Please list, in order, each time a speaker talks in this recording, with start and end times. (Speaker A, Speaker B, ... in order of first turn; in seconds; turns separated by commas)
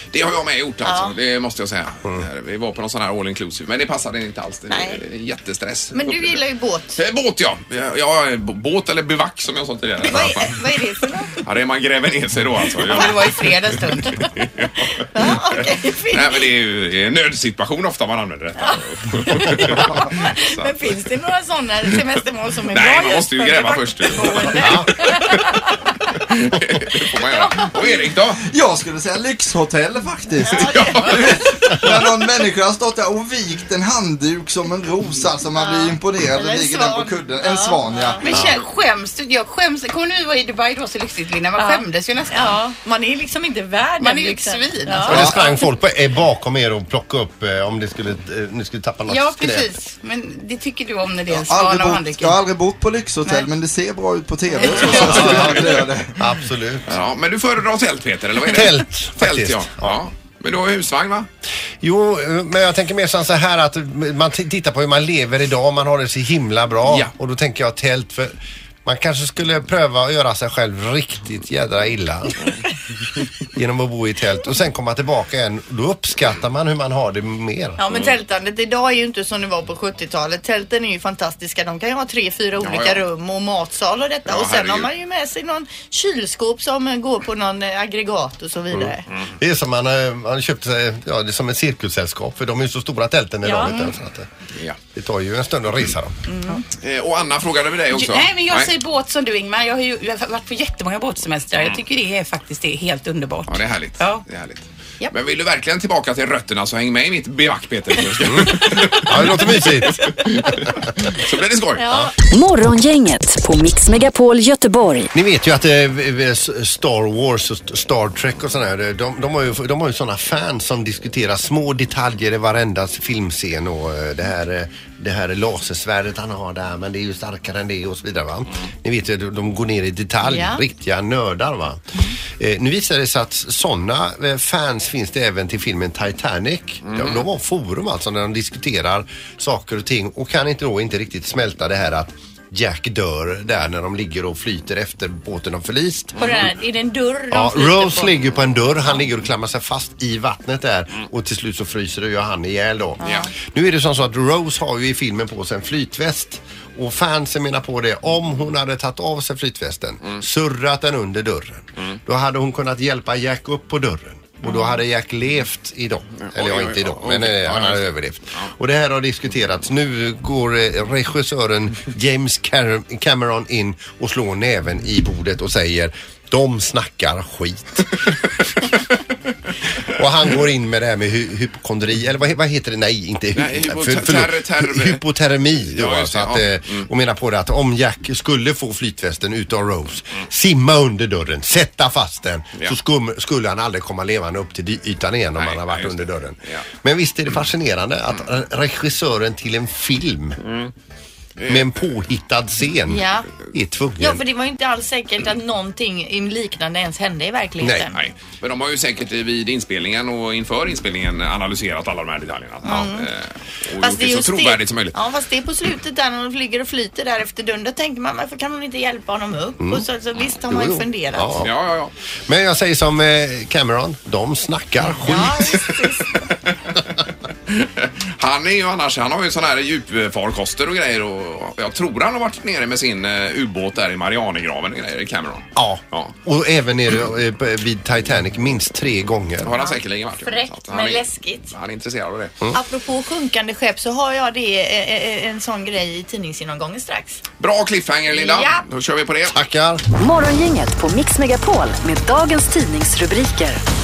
Speaker A: 0.1-6.4, Speaker B: 0.8-1.1, Speaker B: 4.7-5.0, Speaker B: 5.9-7.0, Speaker A: 7.0-10.8, Speaker B: 10.0-11.4, Speaker A: 11.4-13.5, Speaker B: 12.8-13.2, Speaker C: 12.9-14.3, Speaker A: 14.1-20.8, Speaker B: 15.1-16.5, Speaker B: 18.6-25.7, Speaker A: 22.7-25.6, Speaker D: 24.6-24.9, Speaker A: 26.2-28.4, Speaker B: 27.1-28.0, Speaker E: 28.4-38.2, Speaker B: 30.5-31.5, Speaker A: 30.6-31.8, Speaker B: 35.6-38.4, Speaker C: 38.2-42.8, Speaker D: 38.2-38.6, Speaker B: 41.6-45.5, Speaker C: 44.0-45.6, Speaker D: 45.1-49.8, Speaker C: 49.1-52.4, Speaker E: 51.3-56.2, Speaker B: 54.5-55.4, Speaker D: 54.9-57.0, Speaker A: 56.9-61.3, Speaker D: 58.5-60.0, Speaker D: 61.8-72.4, Speaker A: 66.8-67.1, Speaker D: 73.5-77.8, Speaker B: 77.8-89.1, Speaker A: 82.6-83.0, Speaker A: 84.3-84.9, Speaker D: 88.7-94.3, Speaker C: 93.5-93.9, Speaker D: 95.0-96.2, Speaker B: 96.3-96.6, Speaker A: 96.8-98.7, Speaker C: 97.9-104.2, Speaker A: 103.5-111.9, Speaker D: 108.2-110.2, Speaker B: 111.8-112.1, Speaker F: 112.3-115.1, Speaker D: 115.1-146.2, Speaker B: 130.2-130.6, Speaker A: 136.8-137.2, Speaker A: 146.2-146.5, Speaker B: 146.2-148.1, Speaker D: 147.3-178.0, Speaker B: 153.0-153.3, Speaker A: 153.0-153.3, Speaker B: 164.4-164.7, Speaker A: 166.2-167.9, Speaker D: 179.9-200.4, Speaker A: 183.3-185.0, Speaker A: 185.7-186.9, Speaker A: 195.4-196.6, Speaker A: 200.4-200.7, Speaker A: 201.4-201.7, Speaker D: 201.4-204.2, Speaker B: 202.9-203.3, Speaker B: 204.0-207.9, Speaker D: 207.6-207.9, Speaker A: 207.9-215.0, Speaker B: 212.6-213.1, Speaker B: 213.8-221.4, Speaker D: 219.6-219.9, Speaker D: 220.5-221.5, Speaker A: 221.4-221.9, Speaker D: 222.3-225.7, Speaker B: 225.0-226.3, Speaker A: 226.5-226.7, Speaker A: 227.5-236.1, Speaker D: 235.6-239.5, Speaker A: 239.4-242.4, Speaker B: 239.6-241.5, Speaker B: 242.5-247.2, Speaker A: 247.4-249.4, Speaker B: 248.1-248.6, Speaker D: 249.3-249.8, Speaker F: 249.9-253.6